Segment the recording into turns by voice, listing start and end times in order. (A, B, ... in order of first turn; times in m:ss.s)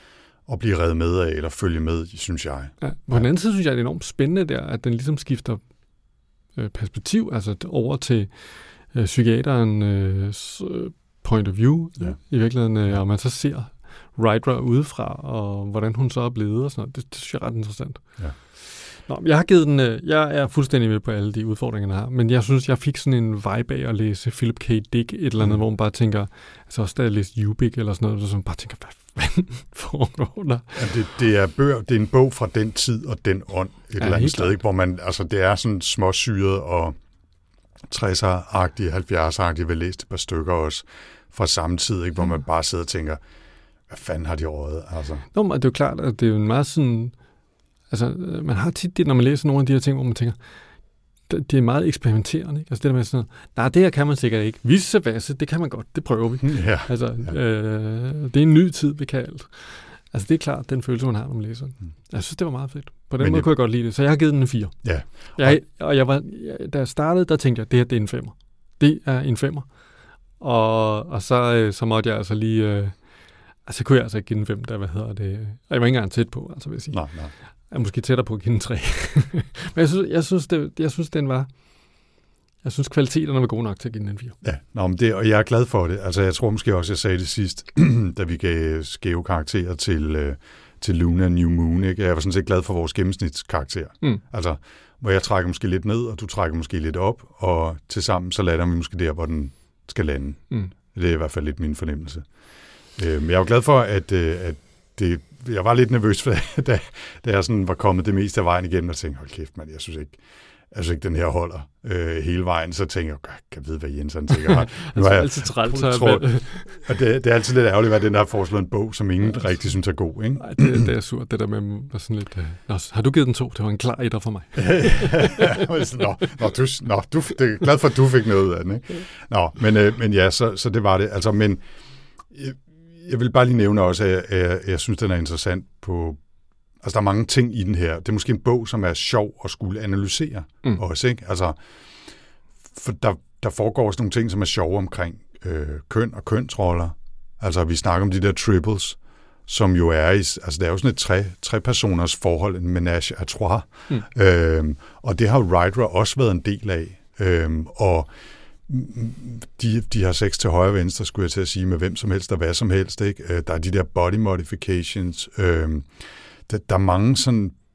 0:00.5-0:03.3 A
0:02.8-0:05.6 B
0:06.6-0:31.0 B
0:30.8-0:37.0 A
0:34.0-0:34.6 B
0:37.9-0:43.2 A
0:43.9-0:45.2 A
0:45.3-0:47.1 B
0:47.9-0:50.4 B
0:51.3-1:09.7 B
0:56.4-0:57.4 A
1:03.2-1:03.5 A
1:04.8-1:05.6 A
1:10.4-1:13.0 B
1:13.6-1:17.0 B
1:16.9-1:17.3 A
1:17.7-1:21.5 B
1:22.6-1:24.4 B
1:24.4-1:42.3 A
1:43.0-1:50.2 A
1:50.7-2:00.9 A
1:54.9-1:56.8 B
2:00.4-2:05.7 B
2:04.6-2:11.6 A
2:12.3-2:16.2 A
2:16.8-2:21.6 A
2:22.7-2:38.1 A
2:38.7-2:47.6 A